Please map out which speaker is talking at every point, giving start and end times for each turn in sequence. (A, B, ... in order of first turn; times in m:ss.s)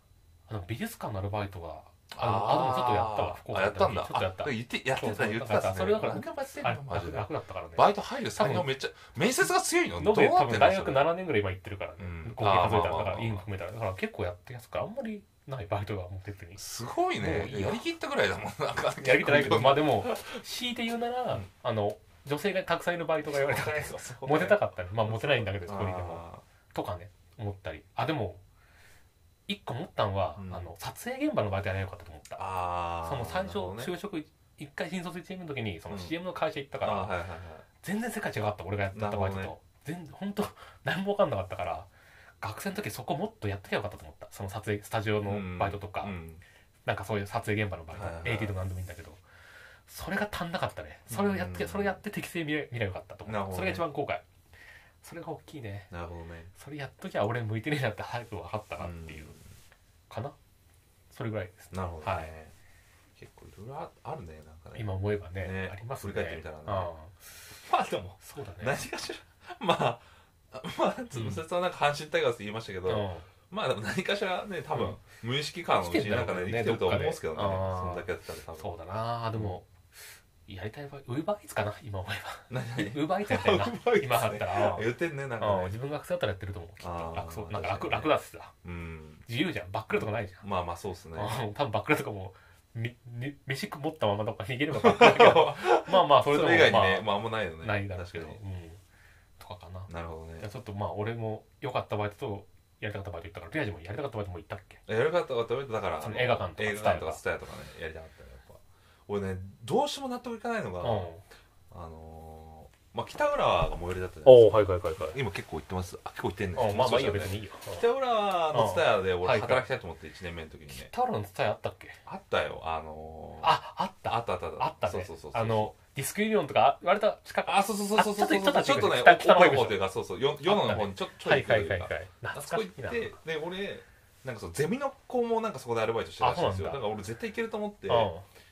0:00.5-0:08.7 A
0:02.1-0:11.1 B
0:10.0-0:16.6 A
0:12.0-0:13.4 B
0:16.6-0:20.4 B
0:17.2-0:17.8 A
0:19.0-0:28.4 A
0:23.2-0:26.4 B
0:29.5-0:32.4 A
0:30.4-0:30.7 B
0:32.4-0:33.9 B
0:33.0-0:37.2 A
0:35.9-0:36.2 B
0:36.8-0:37.7 B
0:37.8-0:41.9 A
0:38.9-0:39.5 B
0:42.4-0:46.1 A
0:45.2-0:46.4 B
0:46.9-0:49.2 A
0:47.9-0:48.6 B
0:49.9-0:54.2 A
0:51.1-0:52.0 B
0:53.3-0:53.9 B
0:55.0-0:55.9 A
0:55.9-0:56.5 B
0:56.6-0:59.4 A
0:58.8-0:59.4 B
1:00.1-1:00.4 A
1:01.1-1:02.3 A
1:01.7-1:02.5 B
1:03.2-1:06.9 B
1:04.7-1:07.2 A
1:07.6-1:18.7 B
1:08.2-1:08.8 A
1:11.1-1:11.4 A
1:12.9-1:13.3 A
1:15.7-1:19.7 A
1:19.3-1:19.6 B
1:20.5-1:24.9 A
1:22.5-1:25.8 B
1:25.4-1:28.5 A
1:26.8-1:28.1 B
1:28.6-1:29.3 B
1:29.3-1:30.4 A
1:29.9-1:31.4 B
1:31.2-1:37.1 A
1:34.7-1:38.4 B
1:37.6-1:38.8 A
1:39.4-1:44.8 A
1:39.9-1:40.5 B
1:44.9-1:51.1 B
1:46.0-1:47.2 A
1:50.8-1:51.2 A
1:51.7-2:00.9 B
1:54.2-1:55.2 A
1:56.6-1:57.8 A
1:58.5-1:59.7 A
2:00.7-2:02.0 A
2:02.1-2:03.6 B
2:03.4-2:09.8 A
2:04.1-2:05.7 B
2:07.5-2:18.1 B
2:10.4-2:13.2 A
2:16.2-2:16.8 A
2:17.9-2:18.2 A